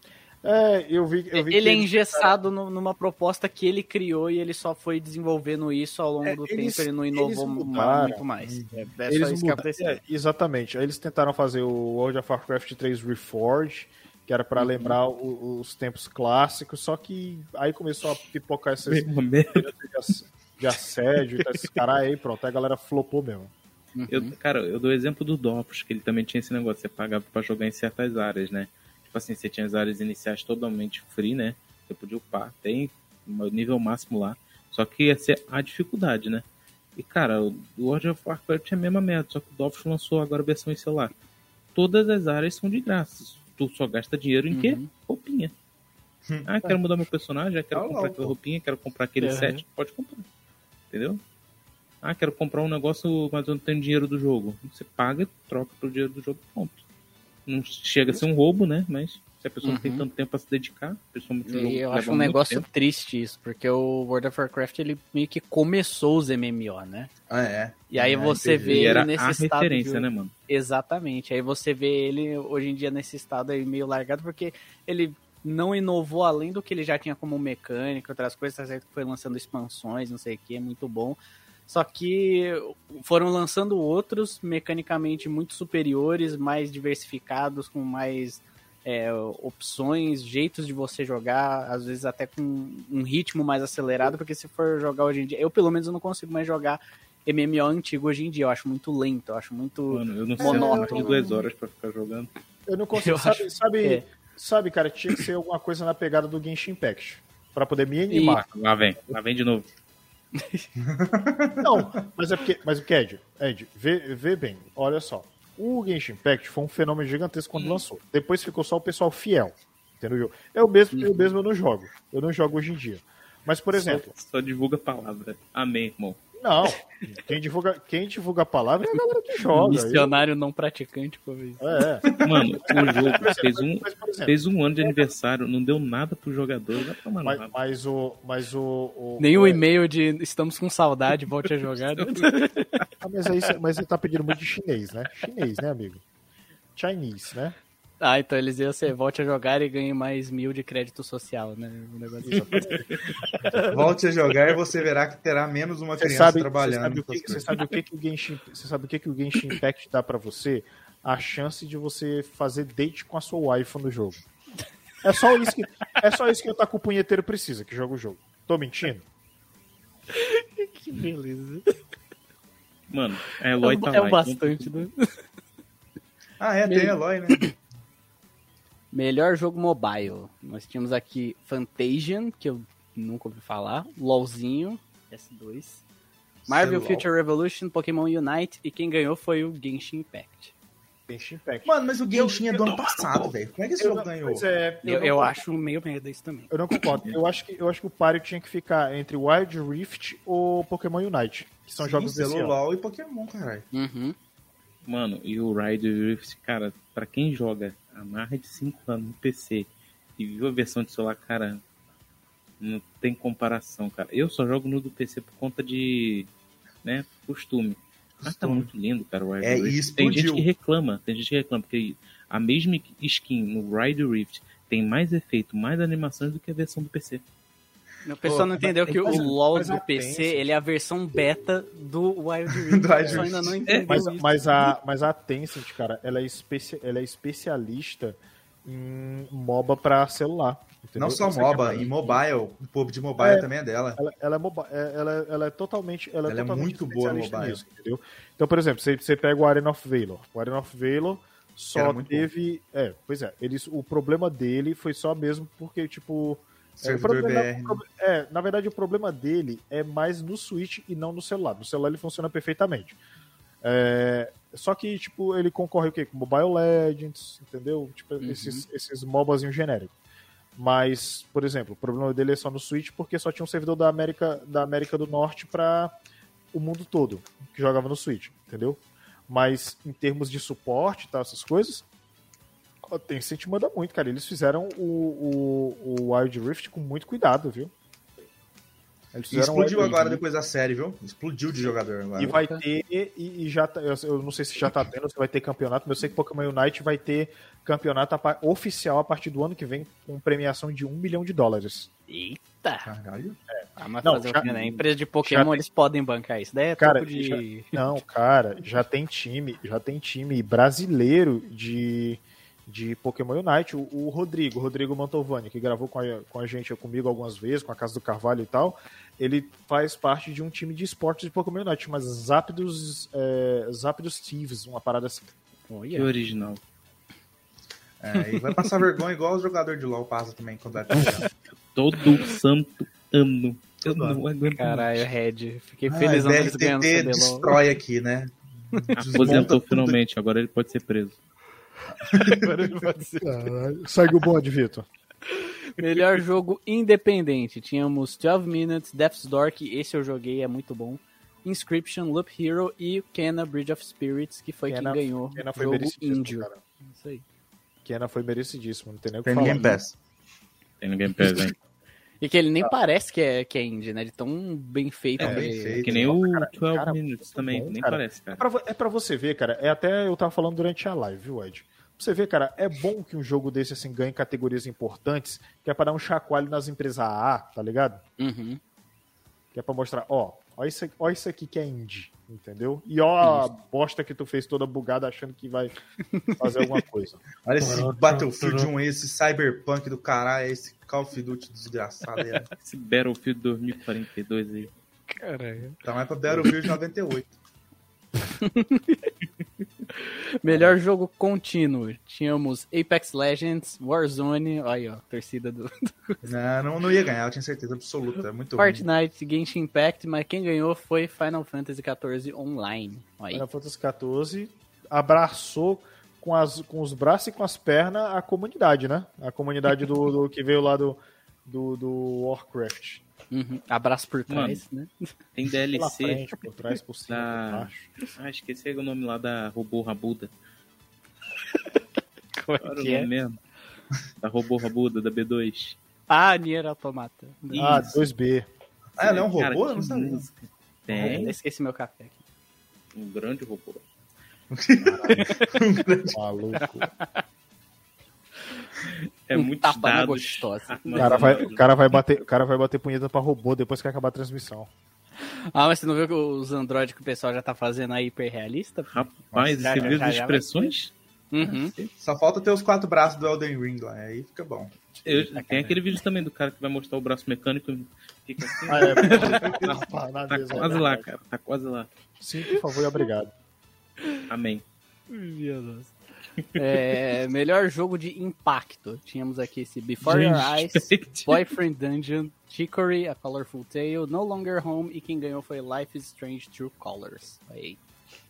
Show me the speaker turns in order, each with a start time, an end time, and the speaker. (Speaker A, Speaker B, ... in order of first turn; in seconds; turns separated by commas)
Speaker A: 0.4-2.4, Speaker B: 1.3-10.0, Speaker A: 6.2-8.2, Speaker C: 8.4-8.8, Speaker A: 9.1-23.5, Speaker B: 14.6-14.9, Speaker D: 18.9-19.7, Speaker B: 23.9-24.3, Speaker D: 24.1-36.4, Speaker D: 37.0-41.1, Speaker D: 41.7-45.5, Speaker B: 44.5-44.9, Speaker D: 46.5-50.2, Speaker C: 47.7-48.4, Speaker B: 49.2-49.6, Speaker D: 50.9-51.2, Speaker D: 52.0-56.8, Speaker D: 57.5-62.6, Speaker B: 59.6-60.0, Speaker B: 61.5-67.1, Speaker C: 67.3-69.0, Speaker B: 67.9-81.2, Speaker D: 68.6-70.3, Speaker B: 81.7-101.2, Speaker D: 99.9-102.3, Speaker A: 100.4-101.4, Speaker A: 102.7-108.5, Speaker B: 103.0-104.0, Speaker B: 108.1-108.4, Speaker D: 108.5-109.7, Speaker B: 110.4-110.7, Speaker C: 110.8-111.9, Speaker A: 111.6-124.1, Speaker D: 117.5-117.8, Speaker B: 120.9-121.3, Speaker D: 123.8-126.2, Speaker A: 126.3-130.1, Speaker B: 129.5-131.8, Speaker A: 131.6-132.1, Speaker C: 132.0-132.5, Speaker D: 132.2-137.5, Speaker A: 132.7-135.1, Speaker A: 137.2-139.6, Speaker B: 139.2-142.7, Speaker D: 141.8-142.2, Speaker A: 143.0-146.0, Speaker A: 146.8-147.6, Speaker B: 148.0-152.8, Speaker A: 152.2-153.7, Speaker B: 153.5-153.8, Speaker C: 153.7-157.5, Speaker A: 156.0-164.2, Speaker A: 165.0-169.0, Speaker B: 170.1-171.8, Speaker D: 172.9-174.9, Speaker B: 173.6-175.0, Speaker C: 176.4-177.5, Speaker B: 176.7-177.5, Speaker B: 178.9-185.8, Speaker C: 186.5-187.1, Speaker B: 186.5-190.5, Speaker A: 191.1-195.4, Speaker C: 191.6-194.4, Speaker B: 194.8-196.5, Speaker A: 196.5-202.5, Speaker C: 201.8-203.7, Speaker B: 203.7-204.1, Speaker D: 204.8-211.6, Speaker D: 212.6-216.3, Speaker D: 216.8-227.2, Speaker C: 218.2-218.7, Speaker C: 219.4-220.4, Speaker B: 228.0-234.7, Speaker C: 228.2-229.3, Speaker A: 228.8-230.4, Speaker C: 232.5-233.6, Speaker A: 233.9-242.2, Speaker C: 240.9-244.0, Speaker A: 243.2-263.0, Speaker C: 246.2-247.6, Speaker C: 251.7-252.3, Speaker C: 256.8-257.8, Speaker A: 263.6-269.9, Speaker B: 268.2-268.6, Speaker A: 270.6-275.9, Speaker A: 276.5-281.8, Speaker A: 282.9-287.7, Speaker A: 289.1-290.2, Speaker C: 289.3-292.4, Speaker A: 292.2-301.9, Speaker B: 292.3-292.6, Speaker B: 302.1-302.9, Speaker C: 302.8-303.4, Speaker A: 303.5-305.6, Speaker B: 303.8-307.8, Speaker A: 306.8-325.3, Speaker B: 325.7-326.1, Speaker D: 325.9-326.6, Speaker C: 328.0-331.3, Speaker D: 331.7-335.1, Speaker A: 333.9-334.2, Speaker B: 334.5-337.6, Speaker C: 335.9-340.0, Speaker D: 338.9-341.2, Speaker A: 339.2-339.5, Speaker C: 342.0-342.5, Speaker B: 342.1-343.4, Speaker A: 343.2-344.9, Speaker B: 345.2-357.2, Speaker A: 354.7-356.6, Speaker A: 357.8-359.8, Speaker C: 359.2-359.9, Speaker D: 360.8-361.5, Speaker B: 362.2-365.8, Speaker C: 365.2-366.1, Speaker A: 365.2-378.0, Speaker D: 365.8-368.4, Speaker B: 378.2-378.6, Speaker A: 379.5-385.7, Speaker B: 386.1-386.7, Speaker A: 386.4-388.7, Speaker C: 387.4-392.5, Speaker D: 392.6-394.7, Speaker B: 395.1-395.8, Speaker C: 395.8-397.4, Speaker B: 398.4-399.1, Speaker B: 399.9-406.2, Speaker C: 406.2-408.9, Speaker B: 408.6-413.4, Speaker A: 413.3-423.0, Speaker B: 423.3-425.1, Speaker D: 424.3-424.6, Speaker D: 425.3-426.2, Speaker A: 425.8-427.9, Speaker D: 427.1-430.3, Speaker B: 431.5-431.8, Speaker B: 432.3-433.1, Speaker D: 432.6-433.4, Speaker D: 434.2-435.8, Speaker B: 436.1-437.9, Speaker D: 437.5-438.0, Speaker A: 437.6-438.5, Speaker C: 439.0-440.2, Speaker D: 439.0-441.3, Speaker B: 440.9-442.2, Speaker C: 440.9-441.2, Speaker D: 442.9-443.8, Speaker C: 444.5-446.2, Speaker A: 444.8-445.3, Speaker B: 445.2-445.5, Speaker A: 446.1-446.9, Speaker B: 446.6-447.2, Speaker D: 448.9-452.0, Speaker B: 449.3-451.4, Speaker A: 450.9-454.7, Speaker B: 455.2-459.0, Speaker D: 458.9-461.9, Speaker C: 459.3-460.0, Speaker B: 459.6-460.7, Speaker B: 461.3-461.7, Speaker C: 462.0-464.7, Speaker B: 465.0-465.9, Speaker D: 465.0-471.9, Speaker A: 468.7-471.1, Speaker B: 469.1-469.4, Speaker C: 469.2-469.8, Speaker A: 472.2-473.3, Speaker D: 474.3-474.6, Speaker B: 475.1-475.9, Speaker B: 476.5-487.8, Speaker D: 480.1-481.4